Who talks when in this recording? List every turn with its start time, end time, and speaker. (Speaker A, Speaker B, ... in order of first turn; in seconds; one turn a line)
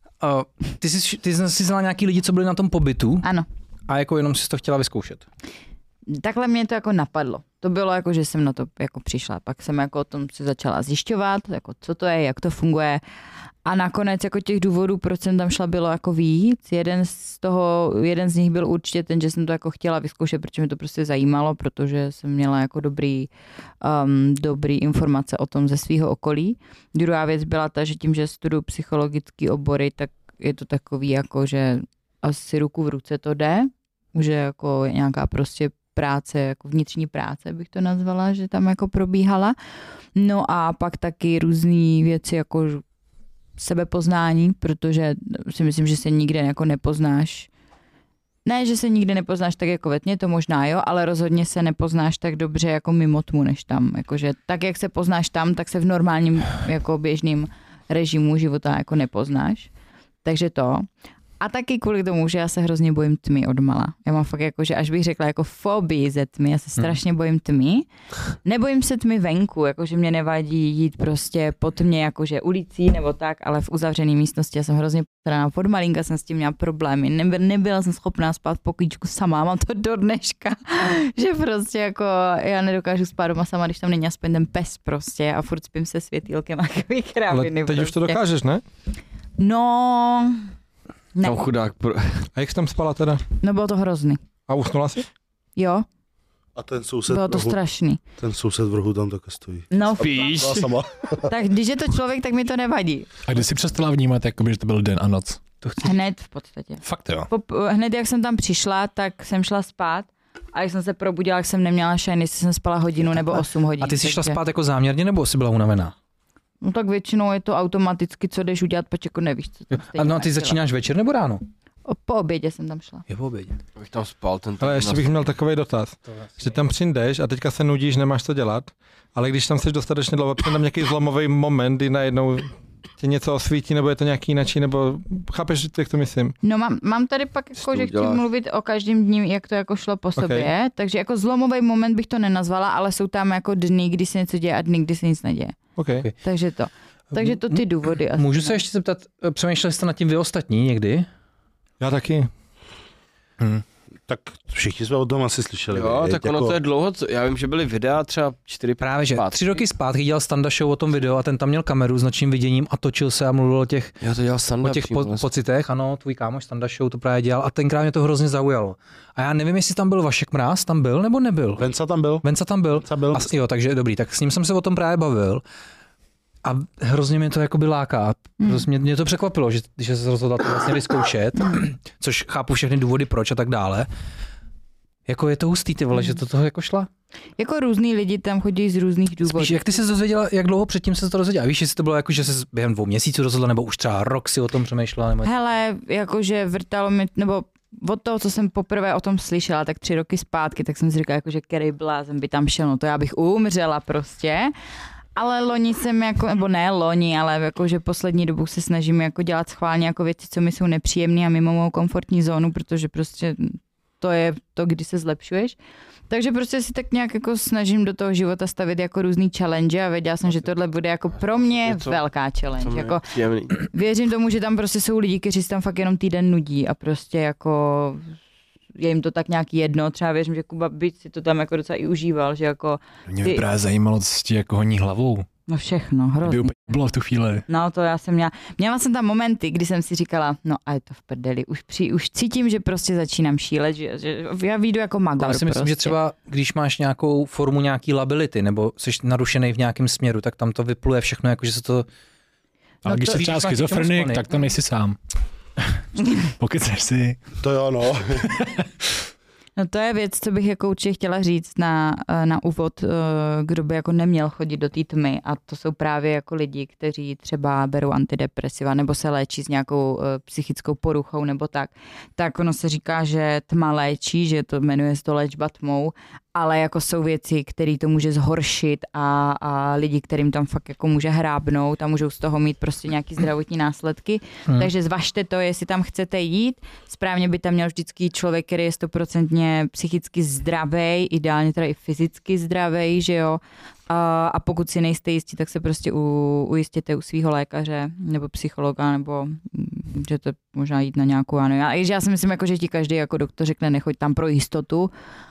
Speaker A: 0.2-3.3
Speaker A: 3.9-5.2
Speaker B: 6.1-13.0
Speaker B: 13.6-23.3
Speaker B: 23.8-39.5
Speaker B: 40.1-42.8
Speaker B: 43.6-47.5
Speaker B: 48.4-59.7
Speaker B: 60.2-60.9
Speaker B: 61.4-67.9
Speaker B: 68.4-88.2
Speaker C: 87.3-88.6
Speaker B: 89.4-90.5
Speaker D: 91.2-92.3
Speaker C: 92.3-93.2
Speaker B: 93.4-94.2
Speaker C: 94.5-95.1
Speaker B: 95.5-95.8
Speaker E: 96.5-97.6
Speaker B: 97.1-98.0
Speaker E: 98.2-101.3
Speaker B: 99.7-100.7
Speaker B: 101.2-103.1
Speaker F: 103.2-105.4
Speaker A: 105.6-105.9
Speaker B: 105.8-114.4
Speaker F: 106.8-107.3
Speaker A: 113.8-115.9
Speaker B: 116.6-120.6
Speaker A: 119.7-121.4
Speaker B: 121.8-123.0
Speaker A: 123.1-123.6
Speaker D: 123.8-125.1
Speaker C: 124.6-136.3
Speaker A: 126.1-126.5
Speaker B: 136.4-145.6
Speaker D: 137.6-138.2
Speaker C: 140.2-140.5
Speaker C: 145.8-146.1
Speaker B: 146.2-148.6
Speaker A: 147.1-151.1
Speaker C: 151.8-152.3
Speaker E: 154.1-156.6
Speaker D: 155.7-159.6
Speaker A: 158.8-163.9
Speaker D: 164.0-165.2
Speaker A: 164.6-171.6
Speaker E: 171.6-172.2
Speaker A: 172.2-175.4
Speaker E: 172.8-173.3
Speaker A: 176.4-183.9
Speaker A: 185.1-186.9
Speaker B: 187.4-189.6
Speaker A: 189.2-195.3
Speaker B: 195.2-204.5
Speaker B: 205.1-215.6
Speaker B: 216.1-228.1
Speaker D: 221.3-222.0
Speaker D: 222.6-223.6
Speaker B: 228.8-233.4
Speaker F: 233.1-235.2
Speaker B: 235.5-236.7
Speaker F: 236.2-237.4
Speaker B: 237.5-245.9
Speaker A: 245.2-251.9
Speaker F: 252.8-255.0
Speaker A: 252.8-254.3
Speaker F: 256.4-257.2
Speaker E: 257.4-258.3
Speaker F: 258.3-258.6
Speaker B: 259.6-304.9